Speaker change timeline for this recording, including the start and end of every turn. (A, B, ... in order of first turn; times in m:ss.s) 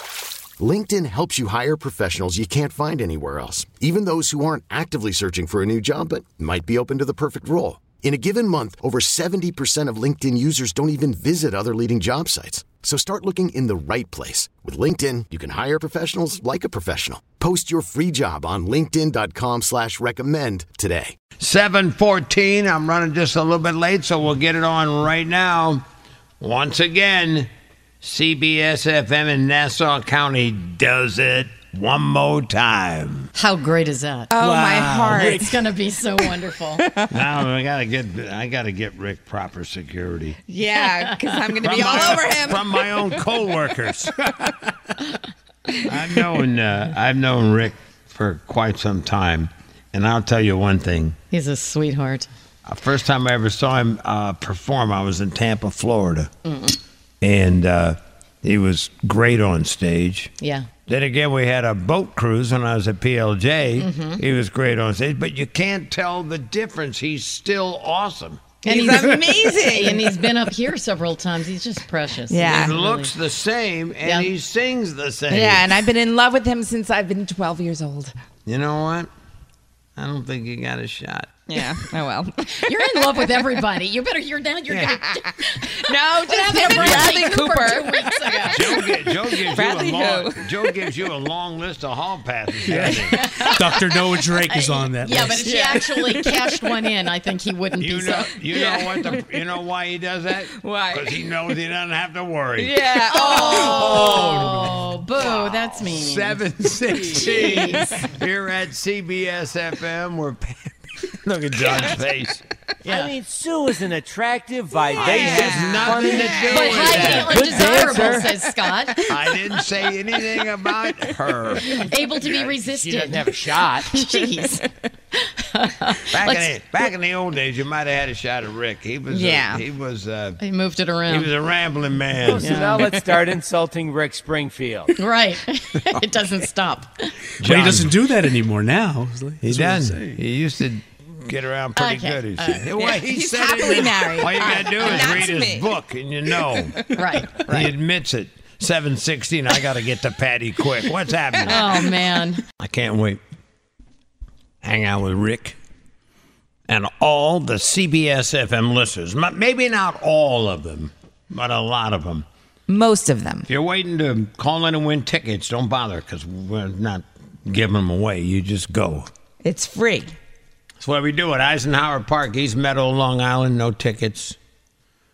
0:00.6-0:21.2 A
0:21.4-0:25.8 B
0:26.4-0:27.5 B
0:28.0-0:33.3 B
0:33.4-0:34.5 C
0:34.3-0:35.5 D
0:34.7-0:35.2 B
0:35.0-0:35.3 E
0:35.1-0:37.0 C
0:36.8-0:37.3 D
0:37.1-0:40.4 B
0:40.4-0:42.8 D
0:40.9-0:41.3 C
0:41.6-0:44.6 B
0:45.8-0:51.2 B
0:51.3-0:52.3 C
0:52.7-0:56.3 B
0:56.4-0:56.8 C
0:57.2-1:00.3 B
1:00.4-1:00.7 C
1:00.8-1:08.6 B
1:03.8-1:04.2 C
1:08.6-1:13.1 C
1:08.7-1:10.1 D
1:12.3-1:12.8 D
1:12.4-1:15.8 B
1:14.0-1:14.3 C
1:15.3-1:18.1 D
1:18.4-1:19.1 B
1:20.0-1:21.5 B
1:21.5-1:23.4 D
1:22.5-1:29.3 C
1:25.2-1:30.7 D
1:26.7-1:27.1 B
1:28.5-1:33.3 B
1:32.7-1:35.5 E
1:32.7-1:33.6 D
1:33.1-1:39.0 C
1:35.3-1:36.8 D
1:37.8-1:42.8 B
1:38.5-1:39.2 D
1:40.5-1:41.2 D
1:42.6-1:44.3 D
1:43.1-1:48.1 C
1:43.4-1:44.1 B
1:44.0-1:44.9 E
1:45.5-1:52.4 B
1:47.2-1:47.5 D
1:52.8-1:53.1 C
1:53.0-1:56.4 F
1:54.9-1:57.8 D
1:55.0-1:57.5 B
1:56.4-1:59.6 C
1:57.6-1:58.2 F
1:59.1-2:01.8 B
2:01.6-2:06.8 C
2:02.4-2:03.9 F
2:06.1-2:10.4 B
2:09.1-2:09.6 D
2:10.4-2:11.3 C
2:11.1-2:12.5 B
2:12.3-2:14.9 F
2:12.4-2:12.9 C
2:12.8-2:13.1 D
2:15.0-2:17.2 C
2:17.4-2:18.0 B
2:17.4-2:20.2 E
2:19.4-2:26.8 B
2:21.8-2:22.8 C
2:22.8-2:25.7 D
2:24.2-2:25.2 C
2:26.8-2:27.7 C
2:27.4-2:32.0 B
2:31.4-2:32.4 C
2:32.6-2:33.2 B
2:34.6-2:35.6 B
2:36.7-2:42.2 B
2:42.7-2:43.5 D
2:43.5-2:49.1 B
2:49.4-2:50.2 D
2:50.8-2:54.4 B